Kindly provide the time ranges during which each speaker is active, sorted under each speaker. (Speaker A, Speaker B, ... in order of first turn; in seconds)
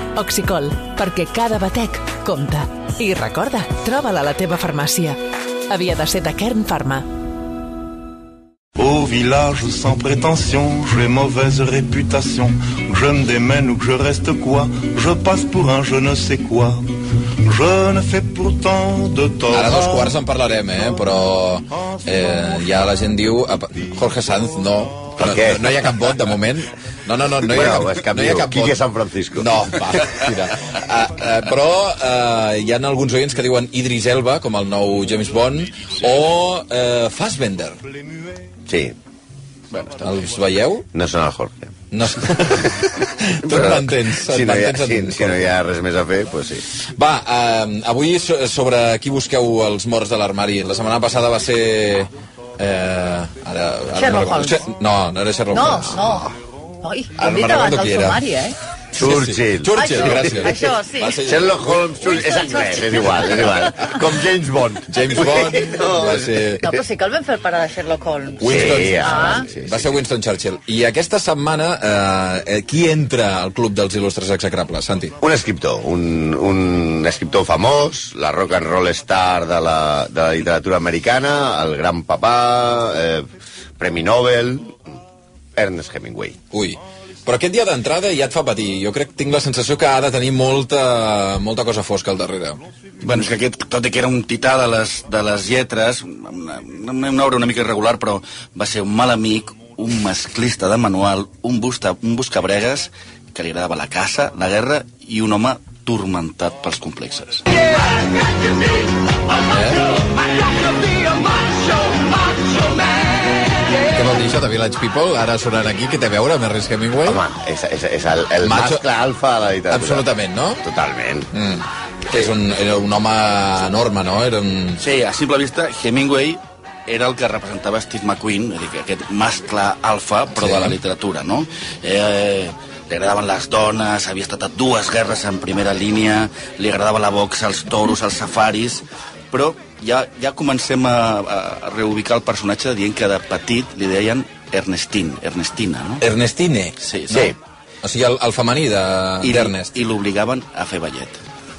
Speaker A: 0.1-5.2, 5.7-7.0
Speaker B: 8.8-20.1
Speaker C: 19.5-28.8, 29.3-37.8, 40.0-40.9, 41.9-45.5, 46.8-56.1, 57.1-58.3, 58.9-62.1, 63.1-63.5, 64.9-66.7, 68.4-75.1, 86.5-92.6, 109.3-109.9, 113.9-117.2, 118.4-118.8, 119.7-120.6, 121.3-124.8, 130.3-130.8, 146.0-147.3, 147.8-149.7
Speaker D: 25.2-25.7, 27.4-29.6, 38.7-38.9, 40.9-41.7, 43.5-46.6, 59.0-66.8, 68.5-69.9, 75.2-83.3, 83.8-84.8, 85.5-86.3, 117.0-120.1, 120.6-121.3, 147.1-147.3
Speaker E: 39.7-40.1, 93.0-107.4, 124.8-146.0, 146.8-147.3, 149.2-151.2
Speaker F: 54.0-54.6, 55.5-58.5, 59.7-63.9, 66.6-69.5